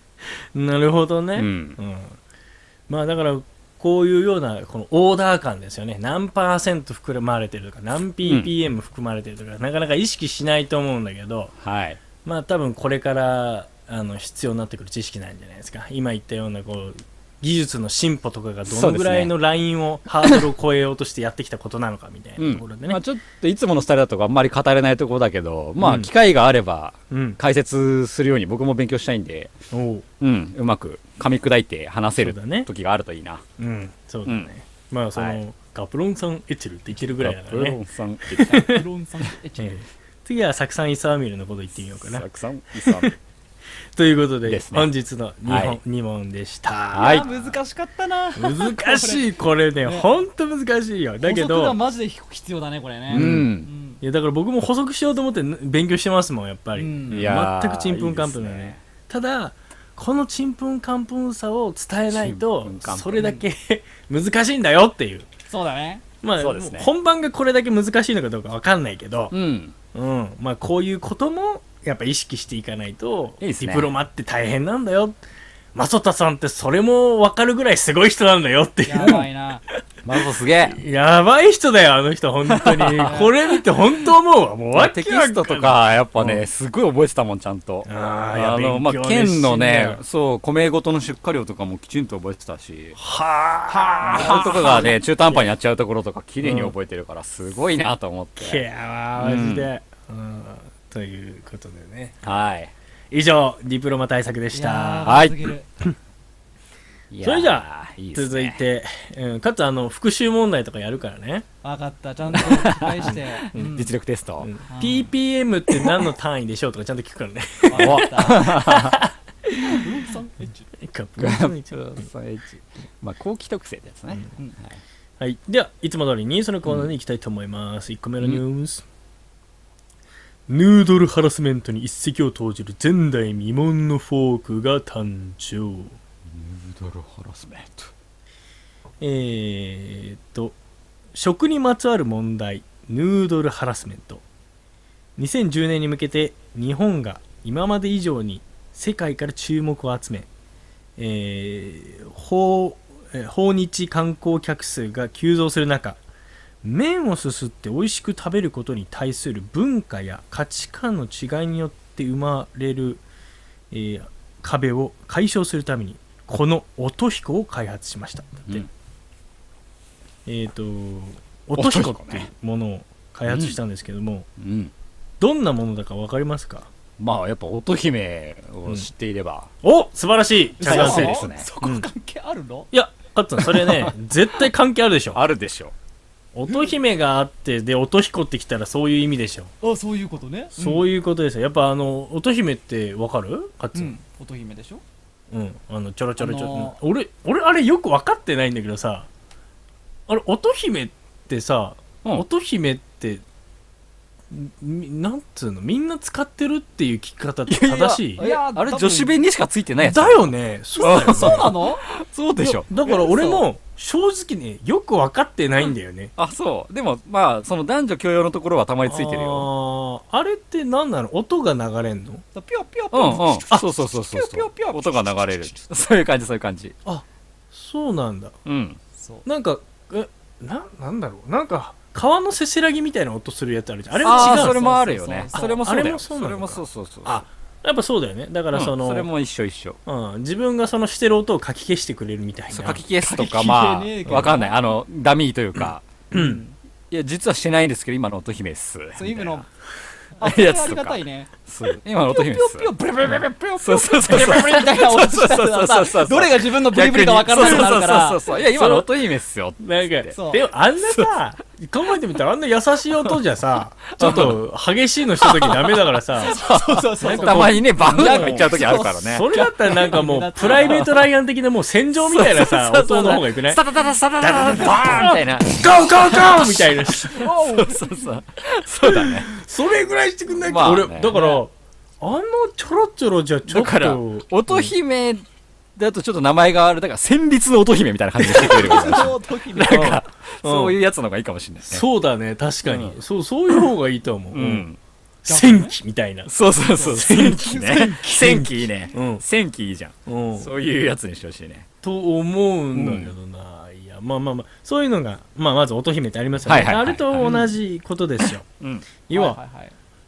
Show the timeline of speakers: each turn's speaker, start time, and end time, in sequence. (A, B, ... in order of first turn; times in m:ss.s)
0:00.5-0:02.2 A
0:01.4-0:01.8 B
0:02.9-0:11.5 A
0:08.2-0:08.5 B
0:11.6-0:12.0 B
0:12.2-0:23.0 A
0:18.7-0:19.3 B
0:22.4-0:29.5 B
0:25.8-0:26.1 A
0:27.1-0:27.4 A
0:29.7-0:30.0 A
0:30.2-0:33.4 B
0:32.2-0:32.7 A
0:33.6-0:38.8 A
0:34.2-0:34.5 B
0:35.1-0:35.4 B
0:37.2-0:38.8 B
0:38.5-0:39.8 C
0:39.6-0:43.1 A
0:42.0-0:43.1 B
0:43.9-0:47.5 A
0:44.5-0:44.9 B
0:45.5-0:45.8 B
0:46.9-0:47.3 B
0:47.0-0:49.2 C
0:48.4-0:51.8 A
0:49.8-0:50.1 C
0:51.2-0:54.0 C
0:53.1-0:53.7 B
0:53.1-0:53.5 A
0:54.0-1:05.3 A
0:56.8-0:57.3 C
0:57.1-0:58.8 B
1:02.1-1:03.3 B
1:05.5-1:06.0 C
1:06.2-1:09.3 A
1:06.4-1:06.9 B
1:09.3-1:09.7 B
1:09.9-1:15.2 A
1:13.4-1:13.9 B
1:15.7-1:19.3 A
1:18.8-1:19.6 C
1:20.0-1:20.8 B
1:20.6-1:26.4 A
1:22.5-1:23.2 B
1:23.0-1:23.3 C
1:24.7-1:33.0 B
1:27.8-1:30.0 A
1:33.0-1:35.5 A
1:33.7-1:38.6 B
1:36.4-1:36.7 A
1:38.4-1:42.2 A
1:39.2-1:39.7 B
1:42.2-1:42.7 B
1:43.1-1:45.2 A
1:44.5-1:45.7 C
1:45.0-1:45.4 B
1:47.1-1:48.6 B
1:47.2-1:51.4 A
1:51.6-1:53.9 C
1:52.4-1:54.5 B
1:54.4-1:59.8 A
1:54.7-1:55.1 C
1:57.6-1:58.5 C
1:57.7-1:59.0 B
1:59.7-2:00.6 C
2:00.8-2:02.1 A
2:01.2-2:04.8 B
2:05.2-2:08.8 A
2:06.6-2:06.9 B
2:10.5-2:16.0 A
2:16.3-2:17.9 B
2:19.0-2:20.6 A
2:21.1-2:24.2 A
2:25.2-2:30.3 A
2:31.0-2:36.0 A
2:36.6-2:43.0 A
2:43.7-2:48.6 A
2:50.2-2:54.3 A
2:51.6-2:52.3 B
2:53.3-2:53.6 B
2:54.4-2:54.7 B
2:55.2-2:56.7 A
2:57.0-2:59.5 B
2:59.6-3:01.9 A
3:00.6-3:02.7 C
3:00.6-3:01.5 B
3:02.7-3:05.2 A
3:05.1-3:05.7 B
3:06.3-3:09.5 A
3:09.6-3:10.8 C
3:10.5-3:14.0 A
3:13.7-3:14.8 C
3:15.3-3:19.1 A
3:16.2-3:16.8 C
3:20.1-3:23.2 A
3:24.3-3:28.2 A
3:27.5-3:33.4 B
3:28.2-3:29.2 C
3:29.8-3:31.6 A
3:30.8-3:31.8 C
3:32.4-3:36.1 A
3:36.2-3:39.5 B
3:38.9-3:42.2 A
3:42.3-3:45.6 C
3:42.9-3:46.7 B
3:46.8-3:48.4 A
3:48.4-3:48.8 B
3:49.0-3:49.2 C
3:49.2-3:54.6 A
3:54.0-3:55.9 C
3:54.0-3:57.2 B
3:55.3-3:59.1 A
3:58.5-3:59.8 B
3:59.8-4:02.8 A
4:02.5-4:05.9 B
4:03.0-4:04.6 C
4:06.1-4:06.4 A
4:06.1-4:06.5 C
4:06.9-4:09.4 B
4:09.0-4:09.5 C
4:10.2-4:11.3 C
4:10.2-4:12.7 B
4:12.0-4:18.3 C
4:13.6-4:20.1 B
4:17.4-4:17.8 A
4:18.5-4:18.9 A
4:19.6-4:26.4 A
4:20.1-4:20.4 C
4:23.9-4:24.4 B
4:25.2-4:25.6 B
4:26.2-4:29.3 B
4:26.3-4:30.9 C
4:27.0-4:33.6 A
4:30.4-4:30.8 B
4:32.0-4:39.3 B
4:34.2-4:37.3 A
4:37.1-4:38.1 C
4:38.8-4:44.7 A
4:40.4-4:41.1 B
4:41.1-4:41.4 C
4:43.5-4:45.2 B
4:45.8-4:51.8 B
4:48.2-4:49.0 A
4:48.4-4:49.9 C
4:49.6-4:50.8 A
4:51.7-4:54.6 A
4:52.6-4:53.0 B
4:54.3-4:54.8 B
4:55.2-4:56.3 A
4:55.2-4:55.7 C
4:56.3-5:01.7 B
4:56.7-4:58.0 C
4:56.9-4:59.2 A
5:00.0-5:00.5 A
5:01.8-5:08.4 A
5:02.7-5:03.1 B
5:06.4-5:07.4 B
5:07.2-5:07.5 C
5:08.6-5:08.8 B
5:09.1-5:09.4 A
5:09.1-5:09.7 C